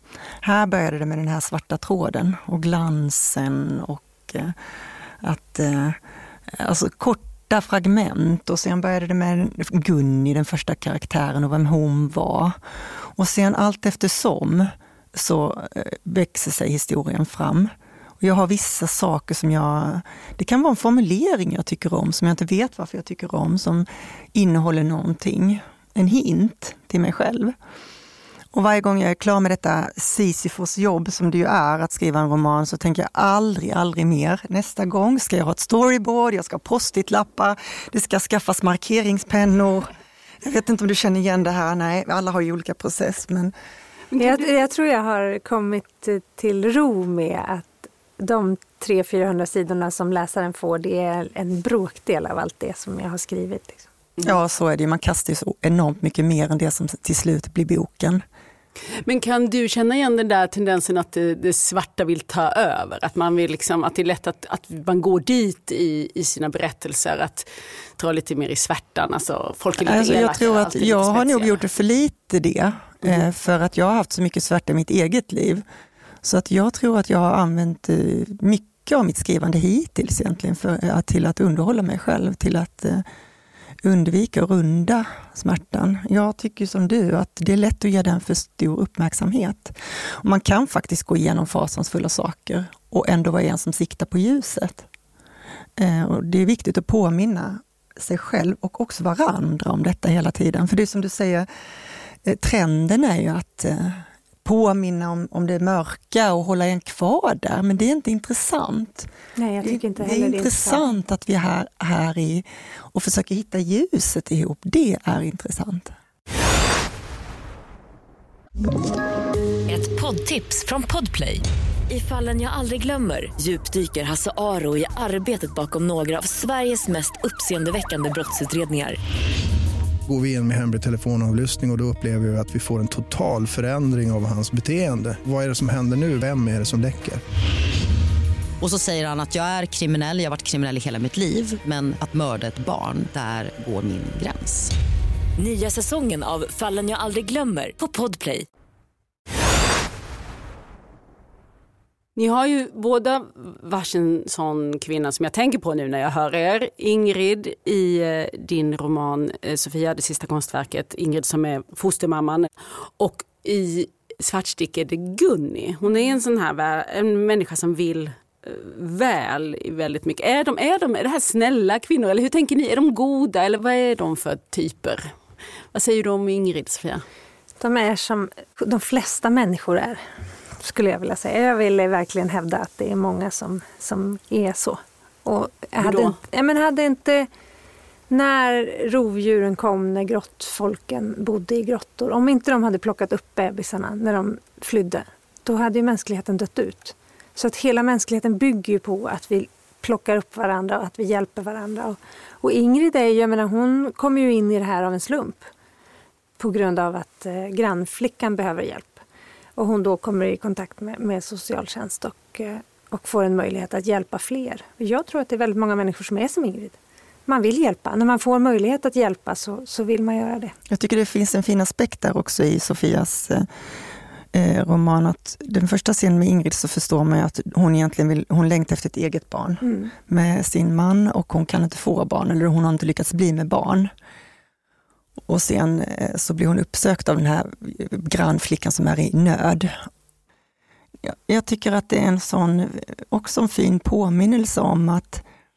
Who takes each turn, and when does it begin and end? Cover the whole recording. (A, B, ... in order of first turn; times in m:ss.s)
0:00.4-0:04.6 A
0:05.2-0:06.0 A
0:06.5-0:12.5 A
0:13.2-0:17.7 A
0:18.2-0:27.5 A
0:28.5-0:39.9 A
0:40.4-0:43.5 A
0:44.2-0:53.8 B
0:54.2-0:58.2 A
0:59.0-1:11.6 C
1:09.8-1:15.6 A
1:16.2-1:23.0 A
1:23.8-1:34.8 A
1:35.8-1:41.5 A
1:42.2-1:49.1 A
1:49.4-1:50.8 B
1:49.6-1:55.9 A
1:59.7-2:09.0 D
2:10.1-2:17.2 E
2:18.6-2:24.7 F
2:25.4-2:28.4 D
2:32.2-2:55.1 C
2:55.7-2:57.0 C
2:57.6-3:00.0 B
3:00.6-3:07.3 B
3:05.8-3:06.2 C
3:08.1-3:25.5 B
3:26.4-3:29.0 B
3:29.6-3:40.5 B
3:40.7-3:43.5 A
3:44.3-3:53.9 A
3:49.6-3:49.9 B
3:55.3-3:59.8 A
4:01.0-4:05.2 A